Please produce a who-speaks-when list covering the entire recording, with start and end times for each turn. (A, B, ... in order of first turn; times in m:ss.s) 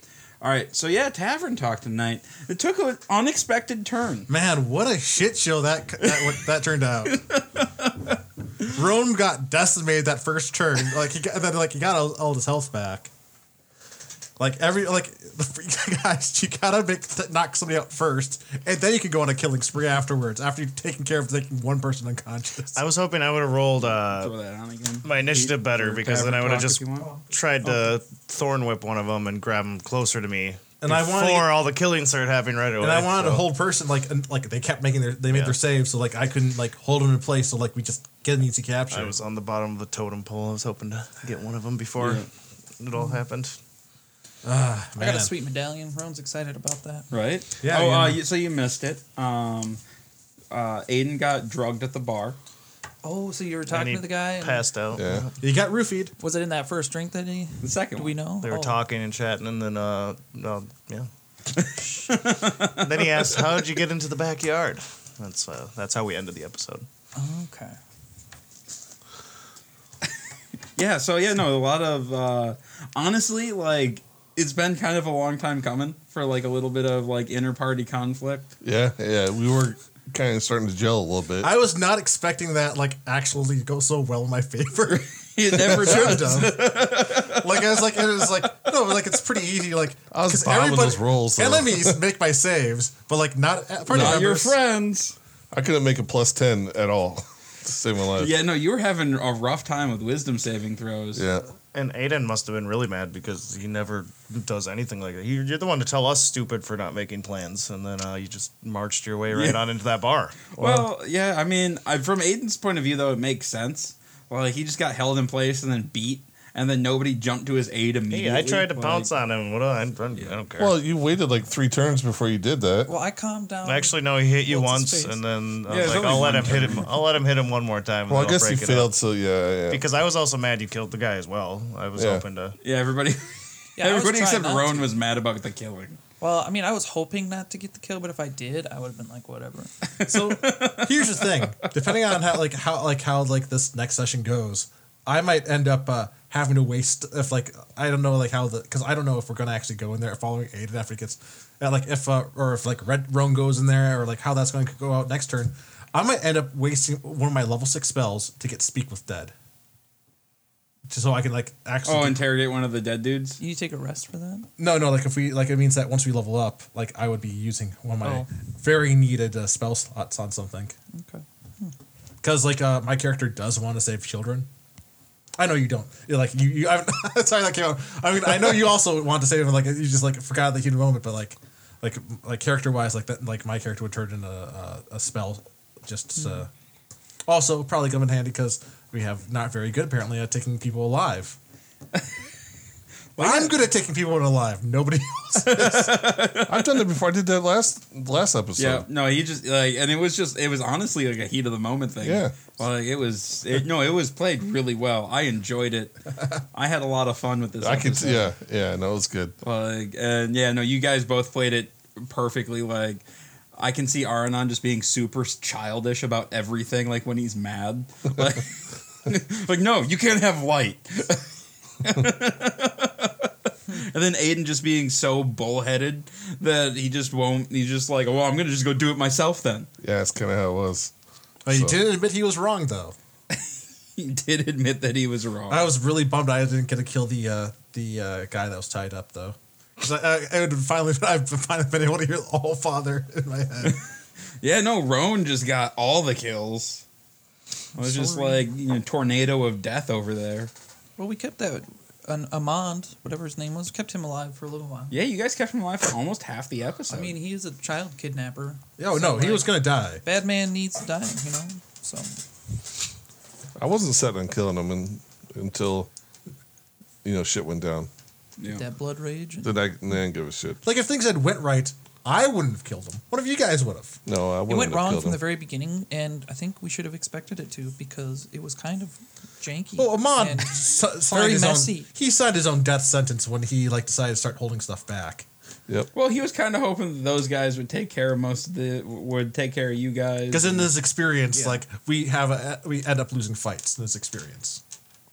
0:00.4-0:04.3 A
0:04.3-0:07.2 B
0:06.0-0:06.3 A
0:07.0-0:08.2 A
0:08.7-0:13.1 B
0:14.4-0:22.8 B
0:22.7-0:24.3 C
0:24.1-0:27.1 A
0:25.0-0:33.5 C
0:30.8-0:31.5 B
0:32.8-0:39.2 B
0:35.3-0:35.6 C
0:38.9-0:42.3 C
0:42.0-0:42.2 A
0:42.8-0:43.6 C
0:43.0-0:43.2 D
0:44.4-0:45.3 B
0:45.0-0:47.1 D
0:47.1-0:49.8 A
0:47.6-0:48.2 B
0:50.5-0:52.4 A
0:53.0-0:54.6 D
0:53.7-0:55.4 C
0:55.0-0:55.2 E
0:55.4-0:56.1 B
0:56.2-0:58.8 D
0:57.6-0:58.2 A
0:58.4-1:01.1 C
1:01.6-1:03.6 A
1:02.8-1:06.9 C
1:07.2-1:07.8 D
1:10.7-1:18.5 A
1:18.6-1:21.5 E
1:21.4-1:34.6 B
1:24.9-1:28.7 A
1:30.1-1:32.0 E
1:33.9-1:35.2 A
1:33.9-1:34.4 E
1:35.5-1:38.3 E
1:38.2-1:41.2 A
1:41.1-1:41.5 E
1:41.7-1:50.8 C
1:49.3-1:49.6 A
1:50.5-1:59.1 A
1:58.1-2:00.8 C
2:00.1-2:00.4 A
2:00.6-2:02.9 E
2:02.9-2:05.2 D
2:03.6-2:08.9 C
2:05.7-2:06.9 A
2:08.1-2:09.8 E
2:09.7-2:12.6 C
2:12.0-2:12.2 E
2:12.6-2:16.0 A
2:13.8-2:14.8 D
2:16.2-2:20.0 D
2:20.0-2:21.5 A
2:20.0-2:39.3 B
2:40.9-2:42.2 B
2:41.8-2:43.4 A
2:43.4-2:44.5 D
2:44.6-2:50.7 B
2:50.9-2:51.7 D
2:52.2-2:54.5 B
2:55.4-3:06.5 B
3:07.3-3:11.4 B
3:13.1-3:13.7 A
3:13.2-3:16.2 B
3:15.4-3:16.8 A
3:16.5-3:18.8 E
3:18.6-3:26.0 A
3:22.0-3:22.6 E
3:26.5-3:28.3 A
3:27.6-3:29.3 E
3:29.4-3:33.0 A
3:33.5-3:41.3 A
3:41.8-3:49.7 A
3:49.8-3:50.9 E
3:51.4-3:52.9 B
3:51.5-3:51.8 E
3:54.0-3:55.7 A
3:55.5-4:03.8 B
4:04.4-4:06.8 A
4:07.8-4:08.5 D
4:07.8-4:10.5 A
4:11.0-4:15.0 D
4:14.9-4:17.1 A
4:16.9-4:22.2 D
4:18.8-4:20.0 B
4:23.6-4:25.9 E
4:27.0-4:27.9 E
4:28.4-4:29.7 D
4:29.4-4:30.6 E
4:30.6-4:34.0 B
4:34.0-4:35.2 E
4:34.5-4:41.9 D
4:39.8-4:45.2 B
4:45.9-4:50.7 A
4:50.3-4:54.6 B
4:51.3-4:51.6 A